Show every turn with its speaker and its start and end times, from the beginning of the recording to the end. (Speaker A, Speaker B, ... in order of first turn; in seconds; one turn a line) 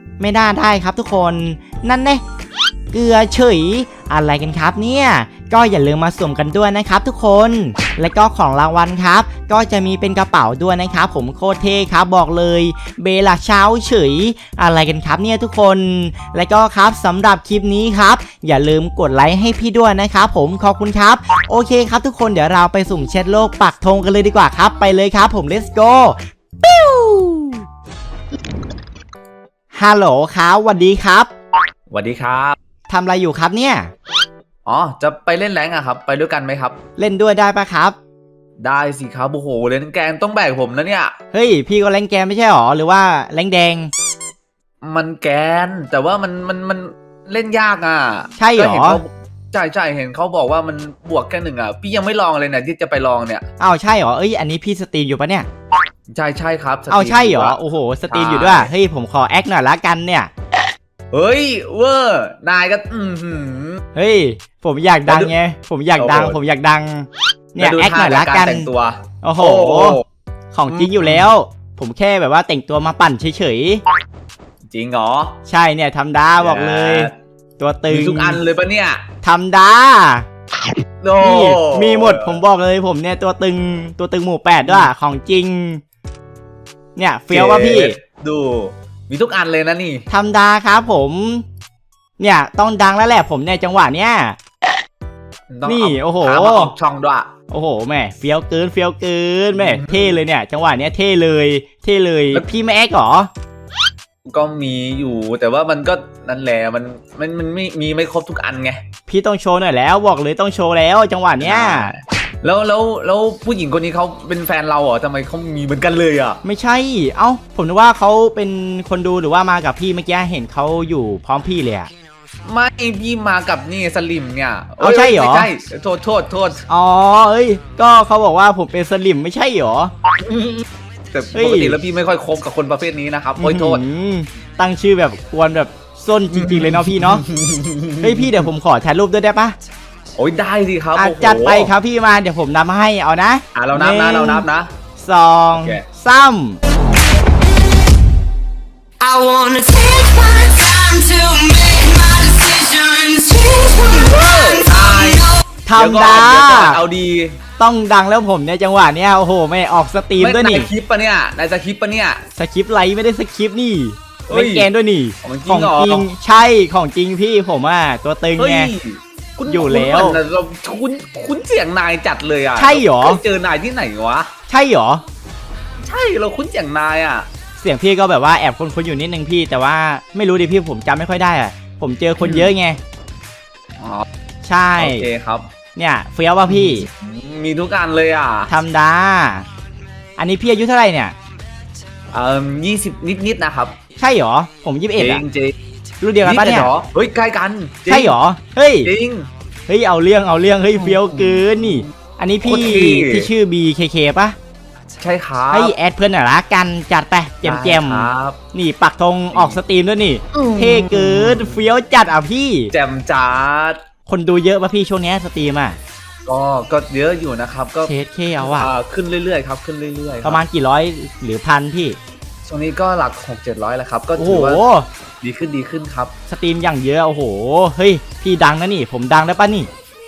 Speaker A: 0.2-2.2
Speaker A: 2.9-27.6
Speaker A: 29.7-31.3
Speaker B: 31.9-32.5
Speaker A: 32.9-33.9
Speaker B: 34.6-36.8
Speaker A: 37.0-38.0
Speaker B: 38.6-41.1
Speaker A: 41.3-43.9
Speaker B: 44.8-53.4
Speaker A: 48.4-49.0
Speaker A: 53.6-55.5
Speaker B: 56.1-58.7
Speaker A: 56.9-60.3
Speaker B: 61.1-63.8
Speaker A: 63.9-68.7
Speaker B: 65.1-65.3
Speaker B: 66.0-66.3
Speaker B: 67.6-70.0
Speaker A: 69.2-70.0
Speaker A: 70.5-73.8
Speaker B: 70.7-71.2
Speaker B: 74.7-75.4
Speaker A: 75.5-78.4
Speaker B: 76.4-77.1
Speaker B: 77.9-79.0
Speaker A: 79.2-80.3
Speaker B: 81.0-82.4
Speaker A: 81.2-85.8
Speaker A: 87.0-88.0
Speaker B: 87.3-90.0
Speaker A: 90.1-91.4
Speaker A: 92.2-94.4
Speaker B: 95.5-97.3
Speaker A: 95.6-96.7
Speaker A: 97.5-103.3
Speaker B: 99.5-100.2
Speaker B: 104.2-108.8
Speaker A: 109.1-111.9
Speaker B: 111.4-116.4
Speaker A: 116.4-121.9
Speaker B: 122.4-126.6
Speaker A: 124.8-125.5
Speaker A: 126.7-129.9
Speaker B: 130.2-133.8
Speaker A: 131.3-131.8
Speaker A: 133.4-137.2
Speaker B: 136.3-138.5
Speaker A: 138.0-139.6
Speaker B: 140.2-141.7
Speaker A: 140.9-144.4
Speaker B: 143.5-144.7
Speaker A: 145.0-146.6
Speaker B: 145.5-145.8
Speaker C: 149.0-155.4
Speaker B: 154.0-157.4
Speaker A: 155.7-156.8
Speaker A: 157.6-160.7
Speaker B: 160.2-162.2
Speaker A: 162.3-168.7
Speaker B: 164.3-164.7
Speaker B: 165.2-166.1
Speaker B: 168.4-174.3
Speaker A: 169.5-170.2
Speaker A: 172.6-173.2
Speaker A: 174.5-175.0
Speaker B: 175.8-177.3
Speaker A: 177.6-182.8
Speaker B: 182.2-182.5
Speaker B: 183.8-184.1
Speaker A: 184.4-185.1
Speaker B: 184.8-185.5
Speaker A: 185.8-186.9
Speaker B: 186.5-188.5
Speaker A: 188.5-189.5
Speaker A: 190.2-191.1
Speaker B: 192.1-193.8
Speaker A: 194.0-195.2
Speaker B: 195.0-195.5
Speaker A: 196.0-196.7
Speaker B: 196.2-198.1
Speaker A: 197.9-198.9
Speaker B: 198.8-199.3
Speaker A: 199.7-204.3
Speaker B: 200.8-201.8
Speaker B: 202.4-203.3
Speaker B: 205.0-205.7
Speaker A: 205.5-212.7
Speaker B: 207.4-208.4
Speaker B: 210.3-211.6
Speaker B: 212.7-213.8
Speaker A: 214.1-215.8
Speaker B: 216.2-220.4
Speaker A: 217.8-218.7
Speaker A: 220.2-222.0
Speaker B: 222.5-224.6
Speaker A: 224.2-224.9
Speaker B: 225.2-226.1
Speaker A: 226.3-229.7